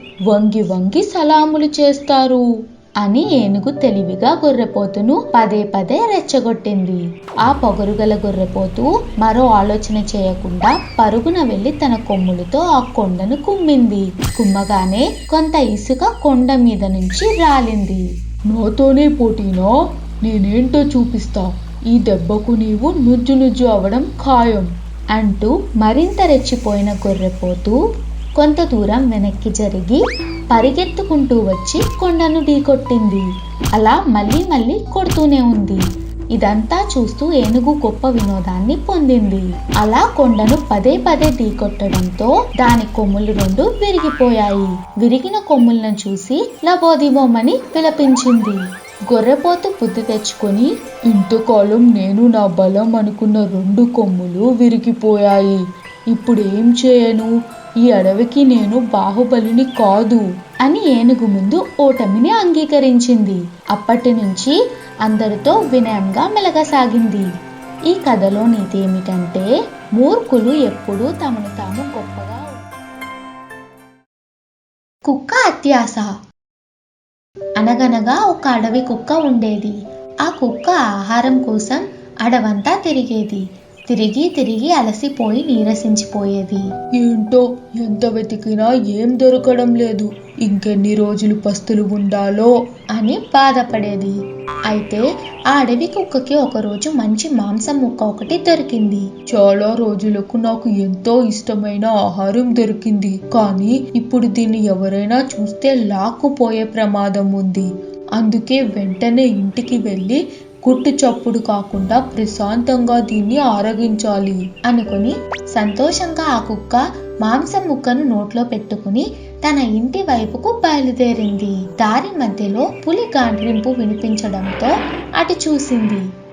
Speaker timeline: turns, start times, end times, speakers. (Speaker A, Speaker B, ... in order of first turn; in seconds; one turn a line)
Speaker A: 0.3-2.4
Speaker B: 3.0-18.0
Speaker A: 18.5-24.7
Speaker B: 25.1-27.8
Speaker B: 28.4-30.0
Speaker B: 30.5-33.2
Speaker B: 33.8-35.8
Speaker B: 36.4-48.6
Speaker B: 49.1-50.7
Speaker A: 51.1-55.6
Speaker A: 56.1-57.3
Speaker A: 57.8-60.2
Speaker B: 60.7-64.5
Speaker B: 65.1-67.2
Speaker B: 67.9-69.5
Speaker B: 70.0-72.5
Speaker B: 75.1-76.1
Speaker B: 77.6-79.8
Speaker B: 80.3-86.6
Speaker A: 87.0-92.5
Speaker B: 93.0-94.1
Speaker B: 94.7-99.1
Speaker A: 99.3-114.5
Speaker B: 114.7-126.0